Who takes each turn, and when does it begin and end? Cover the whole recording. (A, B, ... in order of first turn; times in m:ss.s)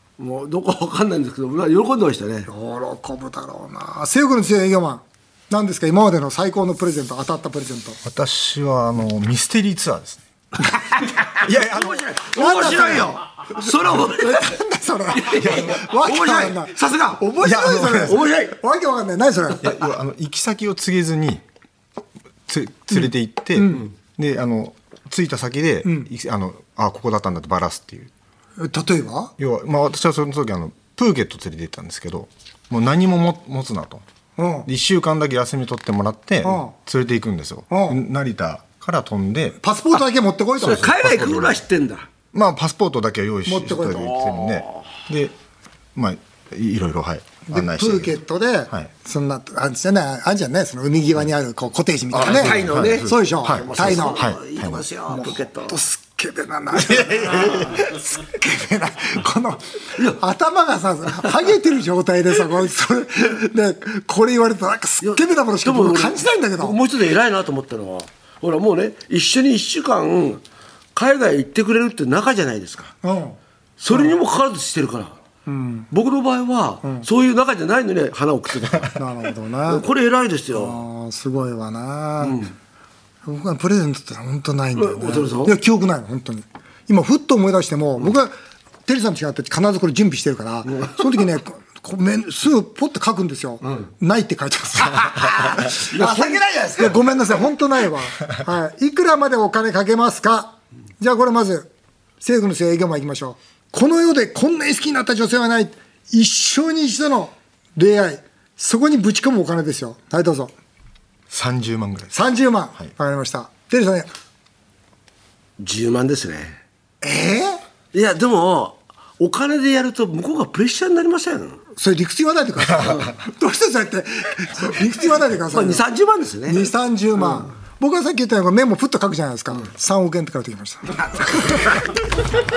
0:00.2-0:02.5 A
0:02.5-0:08.0 B
0:08.0-0:10.2 C
0:11.4-0:13.0 C
0:11.6-0:14.6 A
0:12.3-0:13.2 B
0:13.9-0:19.8 B
0:15.1-0:18.5 A
0:19.6-0:21.4 C
0:22.5-0:28.1 C
0:23.6-0:23.9 B
0:28.6-0:29.3 B
0:29.4-0:34.0 C
0:34.4-0:34.7 B
0:34.6-0:39.6 C
0:36.4-0:36.7 B
0:37.7-0:38.0 B
0:39.6-0:40.9 B
0:40.6-0:42.1 A
0:40.6-0:41.6 C
0:42.3-0:45.4 C
0:43.4-0:44.2 B
0:44.2-0:44.7 A
0:45.9-0:48.1 C
0:47.5-0:54.2 B
0:52.1-0:55.8 A
0:52.2-0:54.8 C
0:55.1-1:06.8 B
1:05.0-1:10.4 A
1:10.9-1:12.9 A
1:13.0-1:13.4 B
1:13.8-1:15.2 A
1:15.5-1:15.9 B
1:15.9-1:19.0 A
1:18.9-1:19.8 B
1:19.7-1:20.8 A
1:20.5-1:22.4 B
1:22.2-1:22.5 A
1:23.2-1:28.3 B
1:24.8-1:25.5 A
1:28.8-1:41.7 B
1:35.6-1:37.0 A
1:42.2-1:50.5 B
1:51.3-1:52.1 C
1:52.1-1:54.1 B
1:55.6-1:56.6 A
1:57.0-1:57.6 B
1:57.9-2:01.6 A
2:01.8-2:05.8 B
2:05.5-2:06.7 A
2:06.5-2:11.8 B